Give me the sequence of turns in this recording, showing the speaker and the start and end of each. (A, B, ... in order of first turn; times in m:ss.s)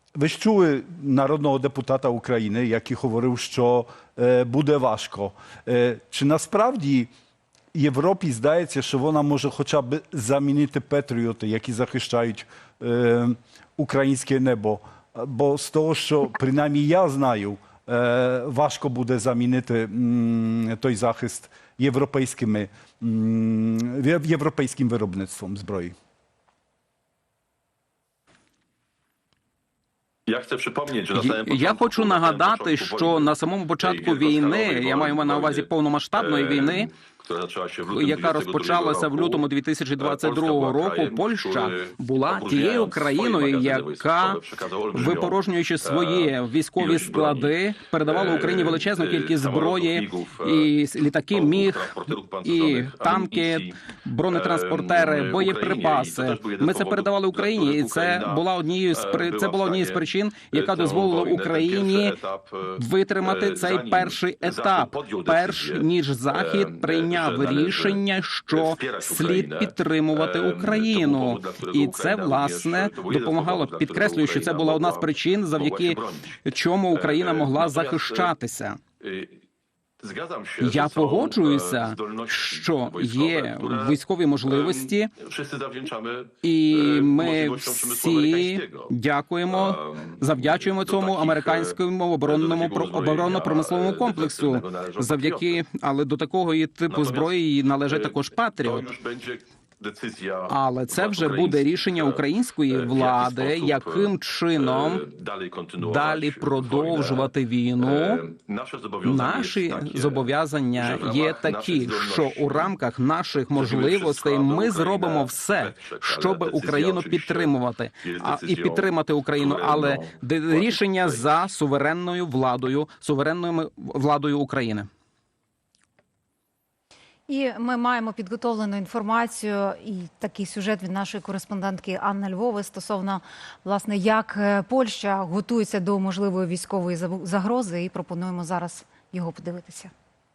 0:00.2-0:07.1 A
0:07.7-0:25.9 A
0:30.3-0:39.5 B
0:31.1-0:36.9 C
0:37.9-0:44.4 C
0:40.0-0:50.7 B
0:44.9-1:02.2 C
0:51.3-1:16.4 B
1:02.8-1:18.8 C
1:16.9-1:18.3 B
1:19.0-1:19.4 B
1:20.0-1:28.9 B
1:20.6-1:25.1 C
1:26.4-1:38.9 C
1:29.5-1:35.6 B
1:36.9-1:52.8 B
1:40.5-1:45.0 C
1:45.8-1:48.2 C
1:49.0-2:04.9 C
1:53.5-2:01.4 B
2:07.3-2:19.9 D